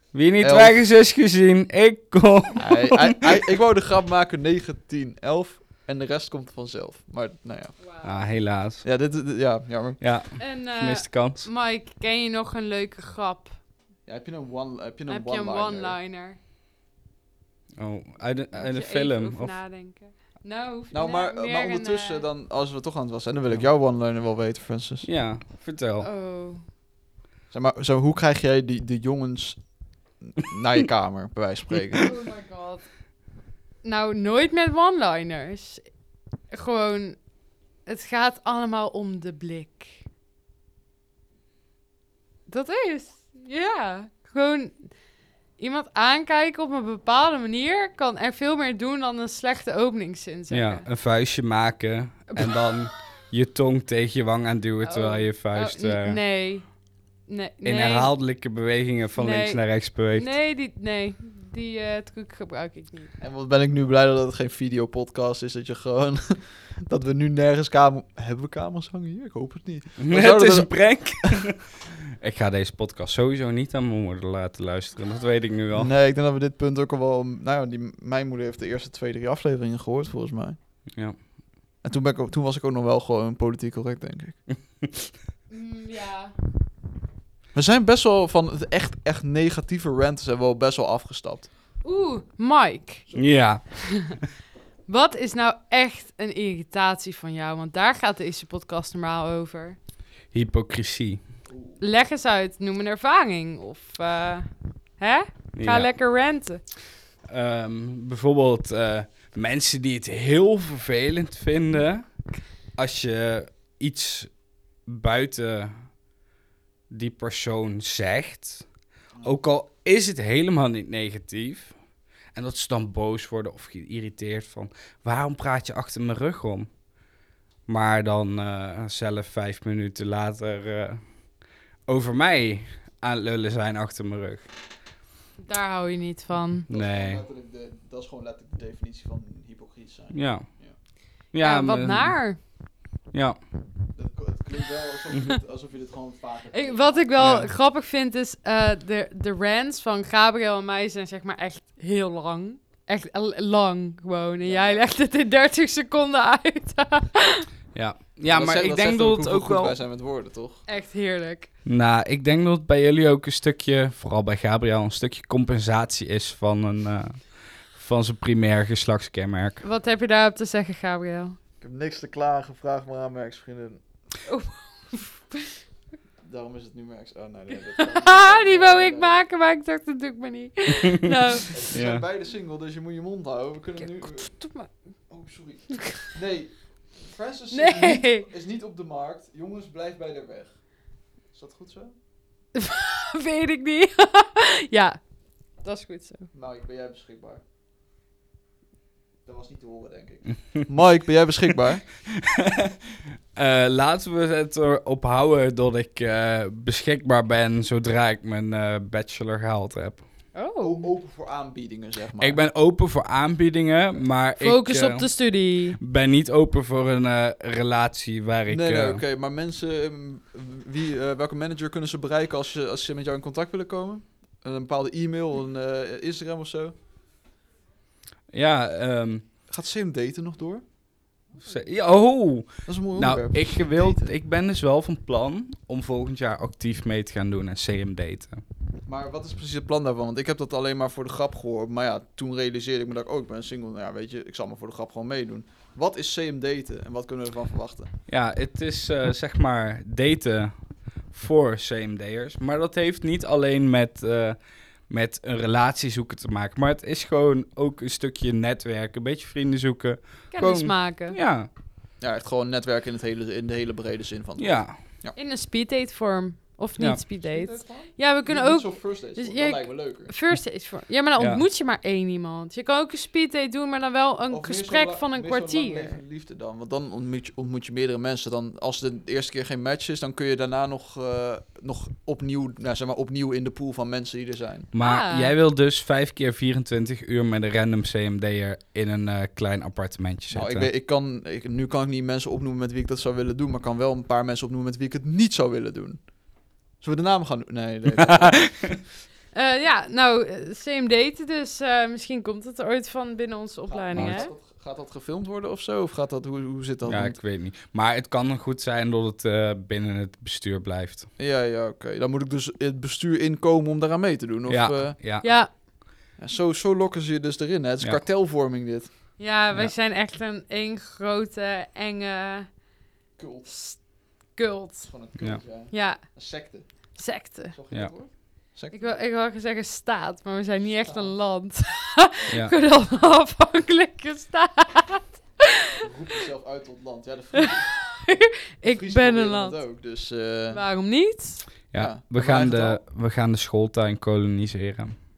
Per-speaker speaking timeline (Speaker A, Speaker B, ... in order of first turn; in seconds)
Speaker A: 0.1-3.3, 8.0-8.8, 10.0-11.5, 17.8-19.5, 25.0-26.1, 50.5-56.2, 57.6-60.3, 70.0-75.9, 93.1-94.2, 100.3-101.2, 105.5-105.9, 107.3-112.0, 112.7-114.3, 114.8-115.8, 116.9-118.7, 119.2-121.7, 122.3-126.7, 127.7-131.0, 131.9-134.5, 136.7-137.2, 140.1-140.5, 141.3-142.2, 143.1-143.4, 147.2-147.5, 157.7-159.8, 161.6-169.6, 181.7-182.0, 202.1-210.0, 212.2-215.1, 215.8-219.0, 228.3-229.2, 231.4-238.4, 248.1-254.4, 254.9-261.5, 264.4-264.8, 271.2-271.4, 284.7-290.7, 298.0-298.7, 303.9-304.3, 306.9-311.1, 314.5-315.3, 341.7-344.9
Speaker B: 0.4-0.8, 2.6-7.8, 8.8-10.0, 14.1-16.0, 20.9-25.1, 27.5-29.6, 30.2-32.1, 63.2-71.4, 75.7-80.6, 81.8-84.4, 87.5-91.5, 93.1-93.4, 101.5-101.8, 136.7-140.8, 143.9-147.3, 154.4-154.8, 158.3-160.6, 171.6-173.8, 176.2-179.2, 181.5-184.3, 185.1-190.7, 191.3-191.9, 196.3-197.4, 199.2-201.8, 210.6-212.4, 218.5-226.7, 229.5-230.6, 232.6-234.1, 238.8-247.9, 262.0-265.1, 267.2-270.1, 274.3-284.7, 290.3-296.1, 296.8-298.8, 303.7-307.2, 311.2-315.0, 316.2-318.9, 323.2-323.5, 324.9-326.9, 327.5-329.0, 330.8-331.1, 335.8-337.7, 338.6-340.6, 341.7-342.8
Speaker C: 7.8-8.2, 10.4-13.6, 15.1-16.4, 18.5-22.2, 26.0-26.6, 32.0-32.8, 33.8-35.8, 36.5-37.2, 37.9-40.0, 42.5-44.9, 45.6-50.8, 54.8-56.7, 57.3-58.1, 59.1-63.1, 85.5-86.3, 91.8-93.0, 93.7-94.2, 94.9-99.8, 101.8-106.6, 135.4-136.7, 141.4-142.4, 146.5-157.5, 160.7-161.5, 169.6-171.4, 174.2-175.6, 177.8-181.6, 183.8-184.7, 187.5-188.3, 192.5-195.0, 195.6-196.3, 210.3-210.9, 214.4-215.8, 260.3-261.2, 265.1-276.0, 284.8-285.3, 299.3-304.3, 315.2-315.5, 319.2-322.5, 323.4-324.9, 325.7-326.2, 326.9-327.6, 328.7-335.7, 337.4-339.6, 340.5-341.4